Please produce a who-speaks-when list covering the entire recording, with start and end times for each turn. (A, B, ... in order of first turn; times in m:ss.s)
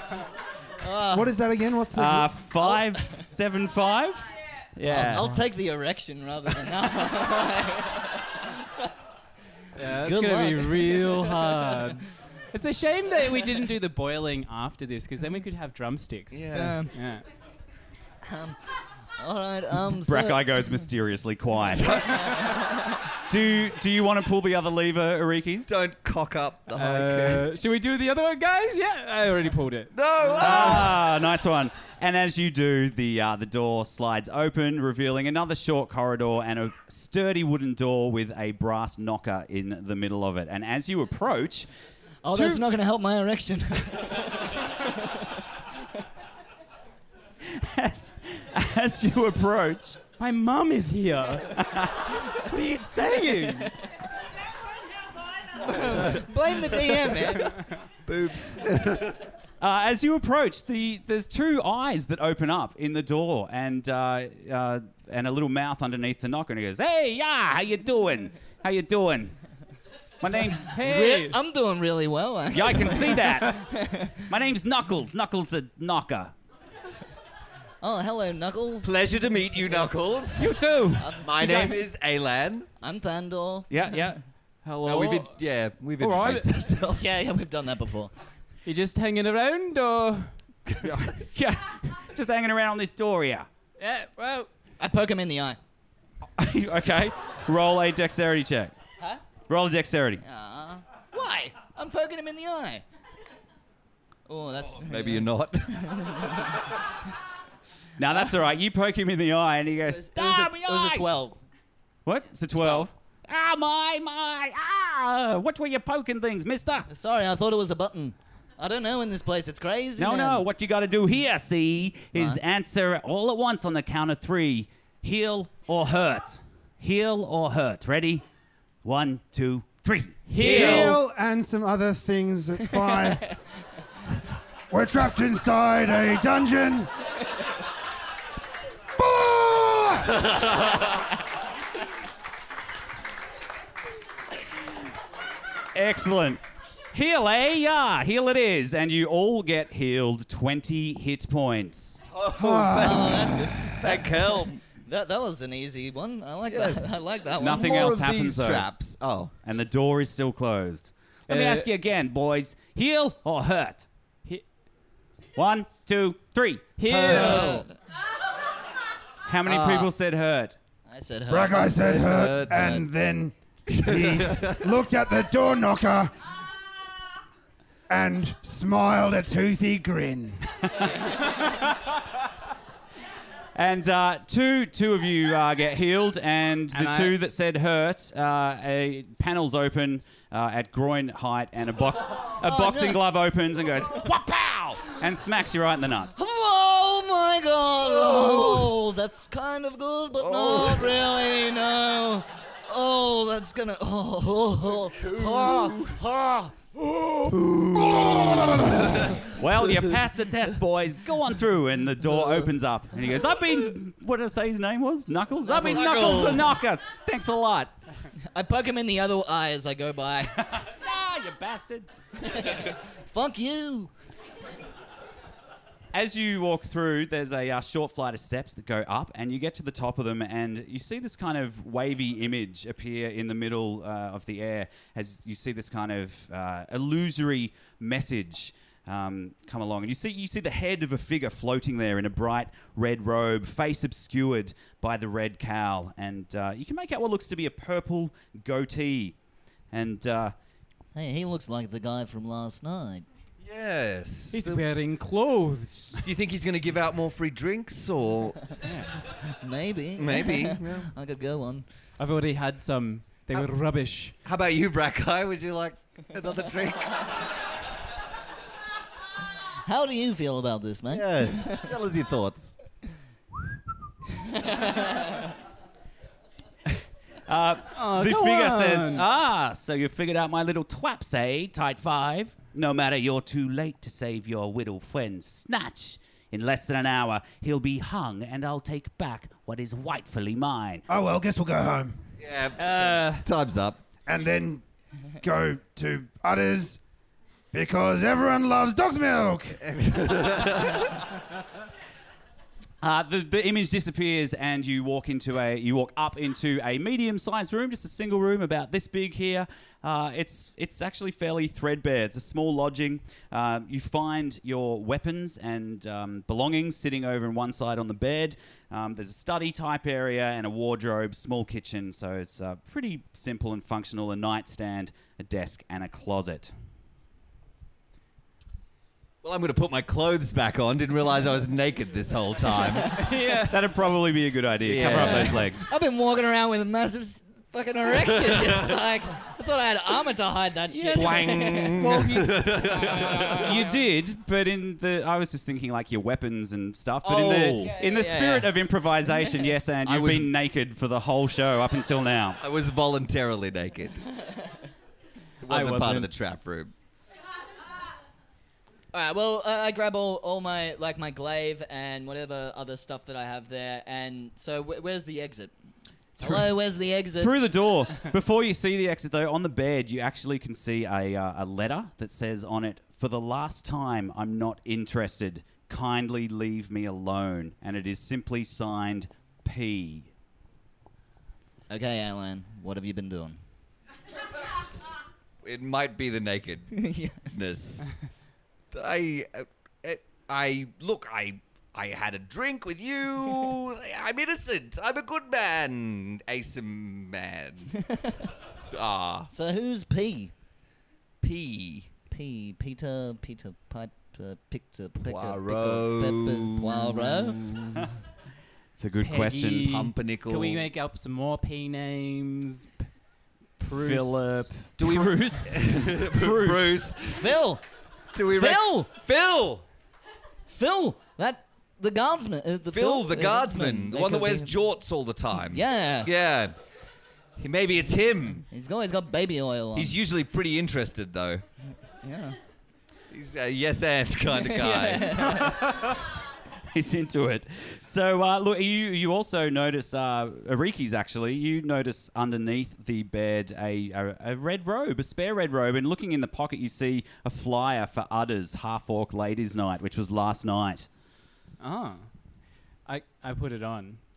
0:00.8-0:01.3 A
0:01.1-0:02.3 B
0:01.9-0:05.4 C
0:02.6-0:03.1 A
0:04.9-0:08.8 A
0:09.7-0:17.2 D
0:09.9-0:11.9 A
0:16.3-0:16.8 E
0:16.5-0:16.9 A
0:18.2-0:18.6 A
0:19.2-0:20.5 A
0:20.0-0:22.3 C
0:22.1-0:23.0 A
0:23.2-0:25.8 C
0:25.7-0:27.4 E
0:26.7-0:29.9 D
0:29.9-0:31.0 E
0:30.4-0:41.7 C
0:42.2-0:45.4 A
0:42.3-0:42.6 C
0:47.4-0:50.0 C
0:50.2-0:51.6 D
0:51.5-0:52.2 C
0:52.3-0:53.7 D
0:55.6-0:57.6 A
0:58.0-0:59.2 E
0:59.6-1:09.4 C
1:10.2-1:10.8 C
1:10.7-1:11.4 D
1:10.8-1:14.3 A
1:12.5-1:13.7 C
1:14.2-1:16.3 C
1:17.8-1:19.0 A
1:18.8-1:20.6 E
1:20.4-1:21.7 C
1:21.0-1:21.8 A
1:21.2-1:22.7 E
1:22.8-1:24.1 A
1:23.7-1:24.2 C
1:24.6-1:25.3 D
1:24.8-1:27.2 E
1:26.0-1:26.4 C
1:26.9-1:28.1 A
1:28.6-1:30.3 D
1:30.8-1:33.5 C
1:33.8-1:34.5 D
1:34.8-1:35.6 A
1:36.4-1:38.8 C
1:39.5-1:40.2 C
1:40.2-1:42.8 A
1:44.3-1:46.7 A
1:44.8-1:46.1 E
1:48.0-1:51.1 C
1:49.8-1:51.4 A
1:52.0-1:56.9 C
1:52.6-1:52.8 A
1:56.9-2:00.4 A
2:00.0-2:08.2 C
2:02.1-2:02.4 A
2:08.8-2:10.9 C
2:10.3-2:10.9 D
2:10.4-2:13.3 B
2:10.4-2:10.9 A
2:14.7-2:16.9 B
2:19.0-2:20.3 B
2:25.7-2:26.4 C
2:26.9-2:32.0 C
2:32.1-2:34.6 E
2:32.4-2:34.1 B
2:32.8-2:34.0 A
2:34.7-2:38.0 A
2:36.5-2:39.3 E
2:37.4-2:38.7 C
2:39.4-2:43.9 C
2:41.3-2:41.7 D
2:45.4-2:46.8 C
2:46.8-2:47.6 D
2:46.9-2:47.6 E
2:47.1-2:47.7 A
2:49.2-2:50.6 C
2:49.4-2:49.9 E
2:50.9-2:51.7 A
2:51.3-2:56.1 B
2:51.7-2:52.6 E
2:52.5-2:52.8 A
2:53.7-2:54.7 E
2:57.9-3:00.4 B
3:00.7-3:01.1 C
3:03.5-3:16.2 C
3:06.7-3:07.1 D
3:12.4-3:13.0 A
3:16.2-3:27.3 A
3:17.8-3:18.7 E
3:20.2-3:21.1 E
3:25.0-3:26.0 E
3:27.3-3:29.7 E
3:27.8-3:29.1 B
3:29.3-3:37.8 C
3:35.5-3:36.5 A
3:35.5-3:36.5 E
3:38.3-3:40.4 A
3:40.3-3:41.9 C
3:42.2-3:43.9 A
3:45.9-4:09.2 C
4:09.7-4:10.3 C
4:10.9-4:13.0 A
4:13.4-4:14.6 E
4:14.3-4:16.0 D
4:16.0-4:18.4 E
4:18.6-4:18.9 D
4:19.1-4:21.6 A
4:20.0-4:20.9 E
4:22.0-4:24.1 D
4:24.2-4:27.1 E
4:29.6-4:31.7 A
4:30.9-4:32.6 E
4:34.2-4:35.3 A
4:37.3-4:50.8 C
4:37.7-4:39.0 D
4:50.9-4:52.0 B
4:52.2-4:53.8 E
4:52.6-4:53.2 C
4:54.0-4:54.6 B
4:55.2-4:56.8 B
4:57.5-4:59.6 B
4:59.6-5:01.0 E
5:02.8-5:26.5 C
5:29.2-5:32.9 E
5:32.7-5:33.1 A
5:32.9-5:33.6 D
5:33.5-5:35.7 C
5:34.6-5:35.5 E
5:34.8-5:43.8 A
5:38.3-5:38.6 E
5:40.9-5:41.2 D
5:40.9-5:43.4 E
5:41.7-5:43.1 D
5:41.9-5:42.2 C
5:43.3-5:52.4 C
5:47.0-5:47.7 E
5:47.2-5:48.6 A
5:49.8-5:50.3 E
5:52.4-5:54.0 E
5:55.4-5:56.7 E
5:55.4-5:56.1 D
5:58.9-6:05.5 A
6:06.2-6:07.4 A
6:06.2-6:06.5 C
6:07.1-6:20.1 C
6:21.7-6:23.4 A
6:25.4-6:27.9 E
6:26.7-6:27.3 A
6:28.7-6:37.7 E
6:37.7-6:38.3 A
6:38.7-6:39.3 E
6:39.3-6:40.3 A
6:41.2-6:42.0 E
6:42.1-6:47.6 A
6:45.0-6:47.9 E
6:48.8-6:49.8 C
6:49.0-6:52.8 D
6:49.6-6:50.7 E
6:53.6-6:54.5 D
6:53.6-6:56.9 C
6:54.8-6:57.3 E
6:57.0-6:57.6 A
6:58.1-6:59.6 E
6:58.2-6:58.9 A
7:00.5-7:04.5 A
7:02.7-7:06.5 E
7:05.4-7:06.1 A
7:07.4-7:08.5 E
7:08.5-7:10.0 A
7:09.7-7:11.4 E
7:12.0-7:12.4 A
7:13.1-7:15.4 E
7:14.3-7:15.6 A
7:15.4-7:15.9 C
7:16.7-7:30.9 C
7:31.6-7:32.1 D
7:32.8-7:34.0 D